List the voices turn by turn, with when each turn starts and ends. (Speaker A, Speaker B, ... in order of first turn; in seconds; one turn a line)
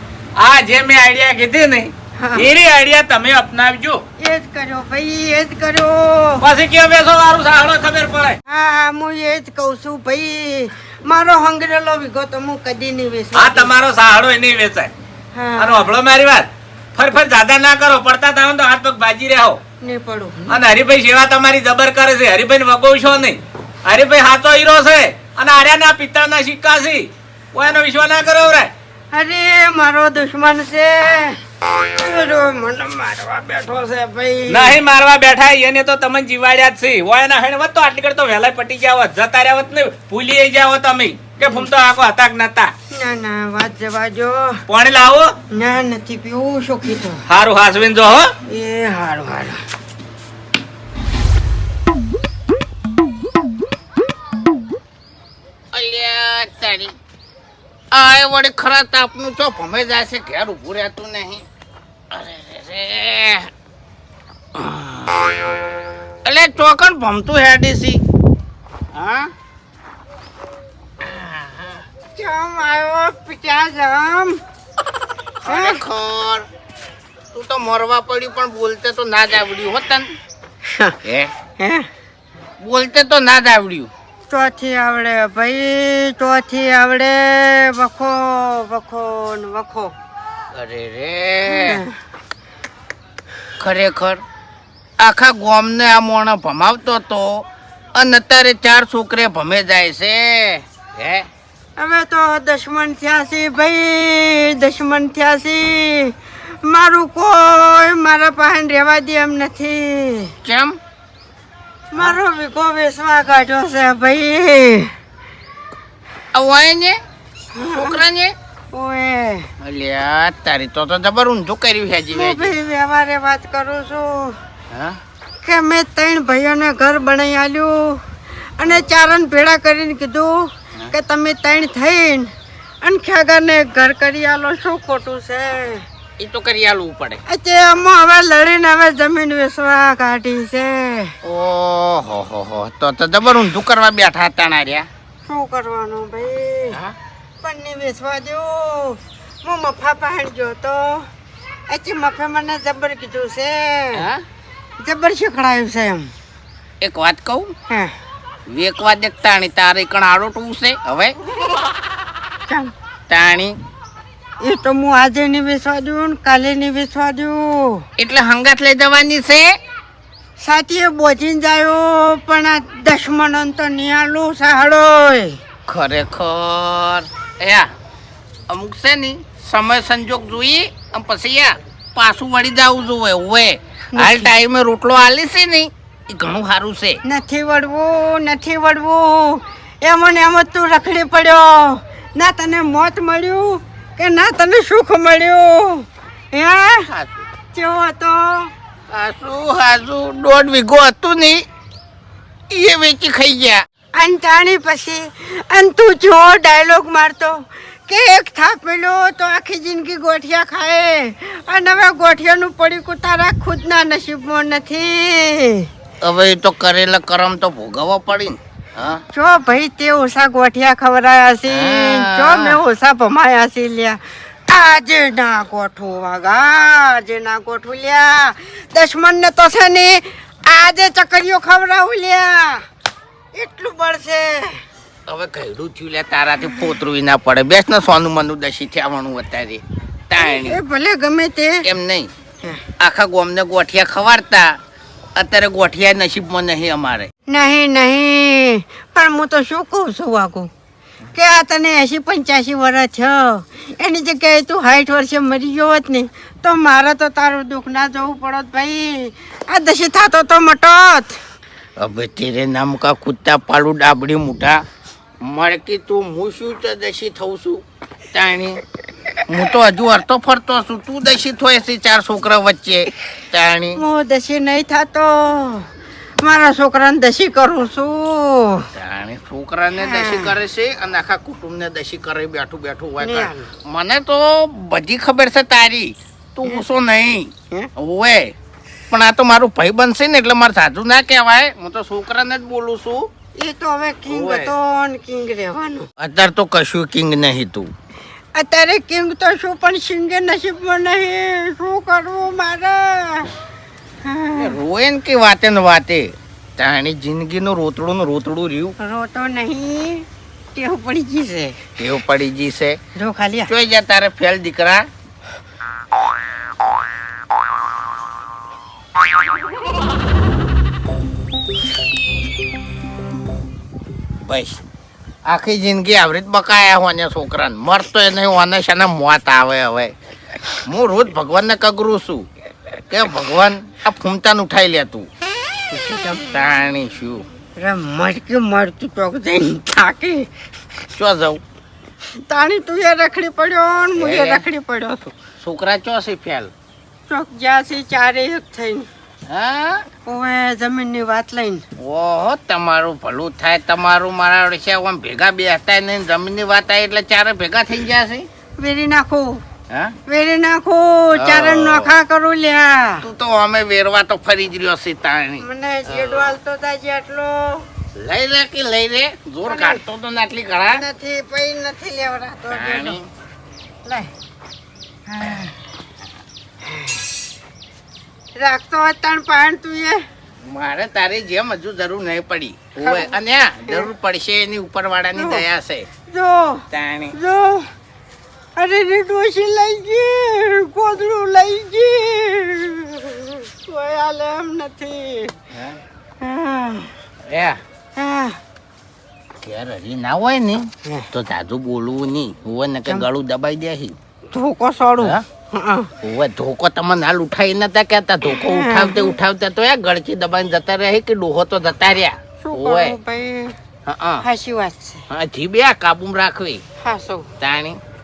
Speaker A: 0.4-4.0
Speaker B: 2.2-2.5
Speaker B: 4.2-6.4
Speaker A: 6.4-8.4
Speaker B: 8.5-13.7
Speaker A: 13.3-14.9
Speaker B: 15.3-15.9
Speaker A: 15.6-19.6
Speaker B: 19.8-20.5
Speaker A: 20.5-28.7
Speaker B: 29.1-34.8
Speaker A: 34.5-42.7
Speaker B: 42.9-44.6
Speaker A: 44.7-45.3
Speaker B: 45.5-47.2
Speaker A: 47.3-48.3
Speaker B: 48.5-49.6
Speaker C: 55.7-56.9
Speaker C: 57.9-61.4
Speaker C: 62.1-63.5
Speaker C: 64.5-65.3
Speaker C: 66.2-68.0
Speaker C: 68.9-69.3
Speaker B: 72.1-74.4
Speaker C: 75.4-76.5
Speaker B: 75.5-75.8
Speaker C: 77.3-80.1
Speaker B: 80.7-81.0
Speaker C: 81.0-81.3
Speaker B: 81.6-81.9
Speaker C: 82.6-83.9
Speaker B: 84.3-89.9
Speaker C: 90.5-91.8
Speaker B: 91.5-91.9
Speaker C: 93.6-94.2
Speaker C: 95.0-101.3
Speaker B: 101.8-110.3
Speaker C: 110.4-110.8
Speaker B: 111.9-114.9
Speaker C: 116.3-117.0
Speaker B: 117.5-118.0
Speaker C: 117.6-118.3
Speaker B: 118.7-119.5
Speaker C: 119.6-122.5
Speaker B: 122.1-124.4
Speaker C: 124.7-125.0
Speaker B: 125.4-128.0
Speaker B: 128.6-132.3
Speaker B: 132.8-135.8
Speaker C: 136.2-137.2
Speaker B: 137.3-141.1
Speaker C: 141.2-144.9
Speaker B: 145.3-146.8
Speaker B: 147.4-151.1
Speaker B: 151.7-154.0
Speaker C: 153.9-154.2
Speaker B: 154.8-156.1
Speaker C: 156.8-157.5
Speaker C: 158.5-161.2
Speaker C: 163.1-163.6
Speaker B: 164.4-167.8
Speaker C: 168.0-169.5
Speaker B: 170.4-175.4
Speaker C: 175.7-177.7
Speaker C: 178.5-187.0
Speaker B: 183.9-184.3
Speaker B: 187.0-196.9
Speaker C: 196.8-197.2
Speaker B: 197.5-198.5
Speaker C: 198.9-201.4
Speaker C: 202.5-203.6
Speaker B: 204.0-215.7
Speaker C: 216.0-219.0
Speaker B: 219.1-232.6
Speaker C: 221.5-222.6
Speaker B: 233.3-234.5
Speaker C: 235.1-240.6
Speaker B: 240.2-241.6
Speaker C: 241.6-242.1
Speaker C: 242.8-244.6
Speaker C: 245.2-247.1
Speaker B: 247.3-250.5
Speaker B: 251.1-261.2
Speaker C: 261.8-264.6
Speaker C: 265.2-268.6
Speaker C: 269.3-273.8
Speaker B: 273.8-275.7
Speaker B: 276.2-278.7
Speaker C: 278.7-288.3
Speaker B: 279.8-280.3
Speaker B: 283.0-283.5
Speaker C: 288.9-293.1
Speaker B: 293.4-295.9
Speaker C: 294.1-294.5
Speaker C: 296.0-297.7
Speaker B: 298.4-303.3
Speaker B: 304.0-304.5
Speaker C: 304.4-308.7
Speaker B: 308.8-311.6
Speaker C: 311.8-312.8
Speaker B: 313.0-313.5
Speaker C: 313.5-314.9
Speaker C: 324.2-324.6
Speaker C: 325.2-329.9
Speaker C: 330.6-332.3
Speaker C: 332.9-335.1
Speaker C: 335.7-337.2
Speaker B: 337.6-340.3
Speaker C: 340.9-341.4
Speaker B: 342.3-345.1
Speaker C: 344.0-344.4
Speaker C: 345.4-346.5
Speaker B: 347.1-348.9
Speaker C: 349.3-349.9
Speaker B: 350.1-351.6
Speaker C: 351.8-358.3
Speaker B: 358.6-359.4
Speaker C: 359.7-359.9
Speaker B: 360.1-363.0
Speaker C: 361.1-361.9
Speaker C: 363.0-366.3
Speaker B: 365.4-367.6
Speaker C: 368.0-370.8
Speaker B: 369.4-369.8
Speaker B: 370.7-373.0
Speaker C: 372.5-373.1
Speaker B: 375.1-375.5
Speaker B: 378.4-380.0
Speaker C: 380.4-385.9
Speaker B: 382.8-383.1
Speaker B: 385.2-385.4
Speaker B: 386.1-387.7
Speaker C: 386.7-387.1
Speaker B: 388.6-395.4
Speaker C: 395.5-395.8
Speaker B: 396.2-396.9
Speaker C: 397.2-397.6
Speaker B: 397.9-398.4
Speaker C: 399.4-403.9
Speaker B: 404.3-405.9
Speaker C: 406.0-412.9
Speaker B: 408.3-409.1
Speaker B: 412.4-413.5
Speaker C: 413.9-414.2
Speaker B: 414.2-415.0
Speaker C: 415.1-416.6
Speaker B: 416.8-417.3
Speaker C: 417.4-417.8